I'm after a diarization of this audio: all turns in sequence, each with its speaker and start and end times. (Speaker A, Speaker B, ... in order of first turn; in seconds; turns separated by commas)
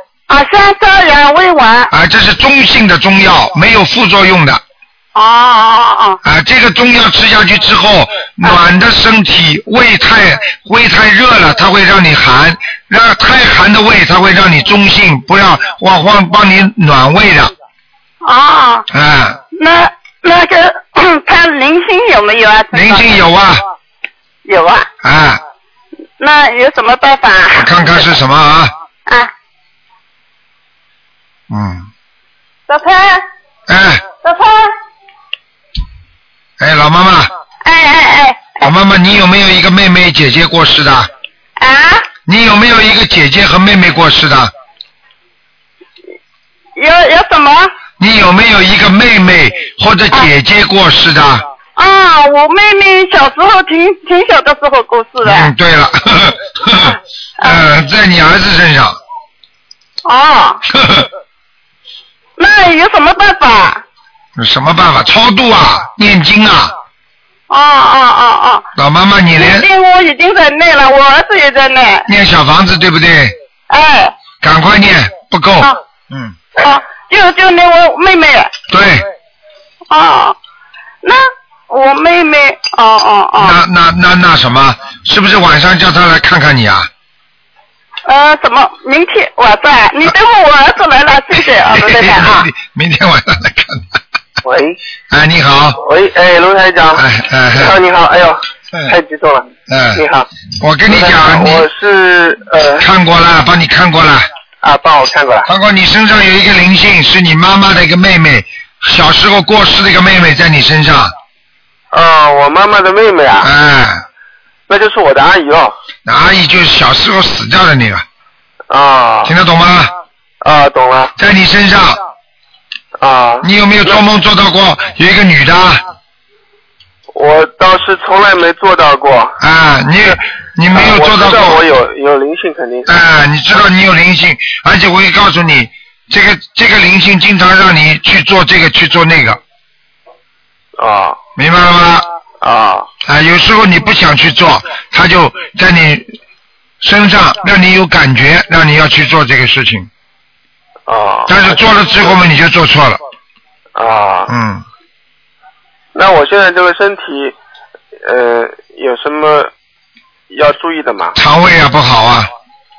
Speaker A: 0.3-1.9, Speaker B: 1.9-4.6, Speaker A: 5.1-6.2, Speaker B: 6.2-17.5, Speaker A: 18.2-18.9, Speaker B: 18.9-19.4, Speaker A: 19.5-23.2, Speaker B: 22.7-23.6, Speaker A: 24.4-24.9, Speaker B: 25.0-25.4, Speaker A: 26.2-28.1, Speaker B: 27.6-28.7, Speaker B: 31.5-31.9, Speaker A: 32.7-33.2, Speaker B: 33.7-34.0, Speaker A: 34.2-34.7, Speaker B: 36.6-37.3, Speaker A: 37.6-38.7, Speaker B: 38.6-41.1, Speaker A: 41.6-42.1, Speaker B: 42.3-44.5, Speaker A: 46.8-47.7, Speaker B: 48.0-51.5, Speaker A: 51.8-55.5, Speaker B: 55.2-59.0, Speaker A: 57.4-57.6, Speaker A: 60.0-60.6, Speaker B: 60.7-61.1, Speaker A: 62.4-63.8, Speaker B: 64.4-66.7, Speaker A: 67.5-68.7, Speaker B: 68.8-69.7, Speaker A: 69.3-72.1, Speaker B: 72.1-73.3, Speaker A: 73.7-74.1, Speaker B: 74.4-76.4, Speaker A: 76.6-78.5, Speaker B: 78.7-79.1, Speaker A: 79.9-80.4, Speaker A: 81.0-83.6, Speaker B: 83.4-86.9, Speaker A: 88.1-92.5, Speaker B: 91.6-94.0, Speaker C: 94.4-94.8, Speaker B: 95.1-95.8, Speaker C: 95.8-100.3, Speaker B: 97.0-97.8, Speaker B: 99.7-100.0, Speaker B: 100.6-101.7, Speaker C: 100.9-102.9, Speaker B: 102.8-104.3, Speaker C: 104.6-105.5, Speaker B: 105.5-111.1, Speaker C: 111.9-113.5, Speaker B: 113.4-114.0, Speaker C: 114.7-115.8, Speaker B: 116.1-118.0, Speaker C: 118.7-119.3, Speaker B: 119.2-119.9, Speaker C: 120.4-121.1, Speaker B: 121.2-122.0, Speaker C: 123.0-124.0, Speaker B: 123.4-125.8, Speaker C: 127.1-129.4, Speaker B: 129.4-131.6, Speaker C: 130.7-133.0, Speaker B: 132.9-139.4, Speaker C: 140.8-141.2, Speaker B: 141.4-142.1, Speaker C: 142.4-142.9, Speaker B: 143.0-146.1, Speaker B: 146.8-149.9, Speaker C: 150.9-152.2, Speaker B: 151.3-153.0, Speaker C: 153.8-154.3, Speaker B: 154.3-154.6, Speaker C: 155.9-157.4, Speaker C: 158.0-159.5, Speaker C: 160.3-161.2, Speaker B: 161.1-162.3